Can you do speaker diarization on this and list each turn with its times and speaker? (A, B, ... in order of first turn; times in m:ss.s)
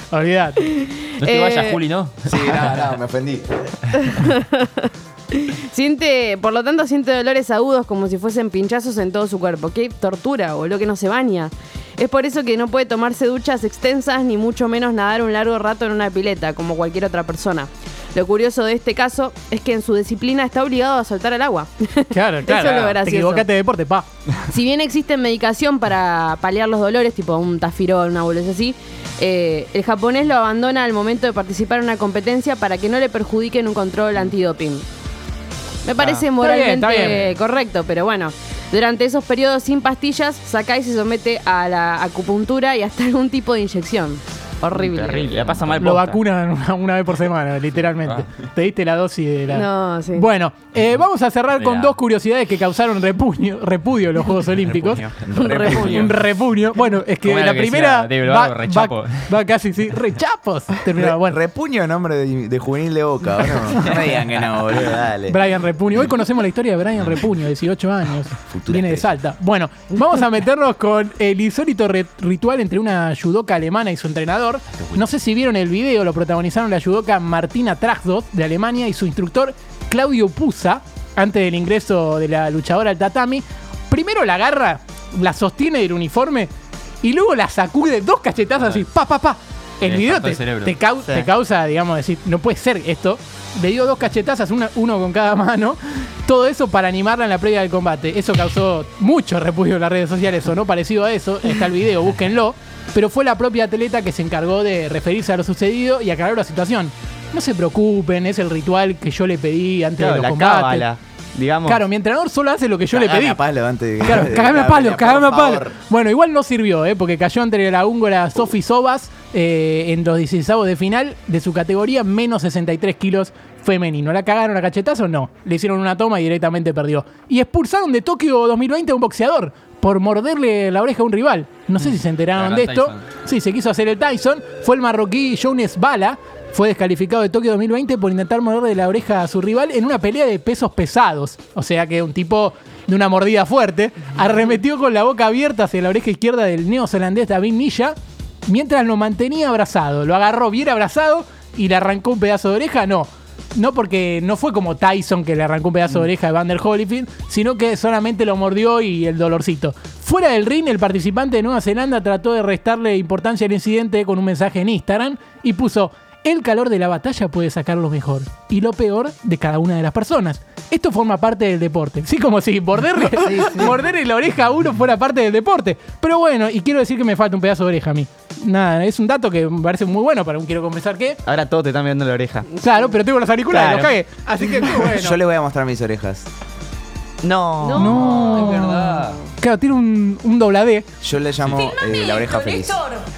0:00.1-0:00.7 A
0:00.7-0:01.8 B
0:01.1-0:02.8 C
0:02.2-0:03.7 D
0:04.0-0:23.4 B
0:22.1-0:24.1 A
0:24.5-0:34.8 B
0:35.8-0:45.6 B
0:36.0-0:36.2 E
0:36.4-0:37.3 A
0:44.8-0:46.2 E
0:45.8-0:55.0 A
0:49.5-0:50.3 B
0:51.6-0:52.0 C
0:54.6-0:56.1 E
0:55.2-0:56.1 D
0:55.4-0:55.9 B
0:55.7-1:01.4 A
0:57.2-0:59.3 C
1:00.9-1:05.4 D
1:03.7-1:04.1 A
1:05.3-1:26.5 A
1:08.5-1:09.1 D
1:14.7-1:15.0 C
1:27.0-1:50.9 A
1:29.8-1:30.8 C
1:50.0-1:51.8 E
1:51.6-1:53.4 A
1:52.9-1:55.7 D
1:54.0-3:01.2 A
2:12.3-2:13.0 C
2:53.4-2:53.7 E
3:01.2-3:02.5 E
3:02.6-3:05.2 A
3:03.5-3:03.9 E
3:04.8-3:06.3 D
3:07.2-3:07.9 E
3:07.6-3:08.4 B
3:07.7-3:10.8 A
3:07.9-3:09.2 C
3:11.0-3:12.9 D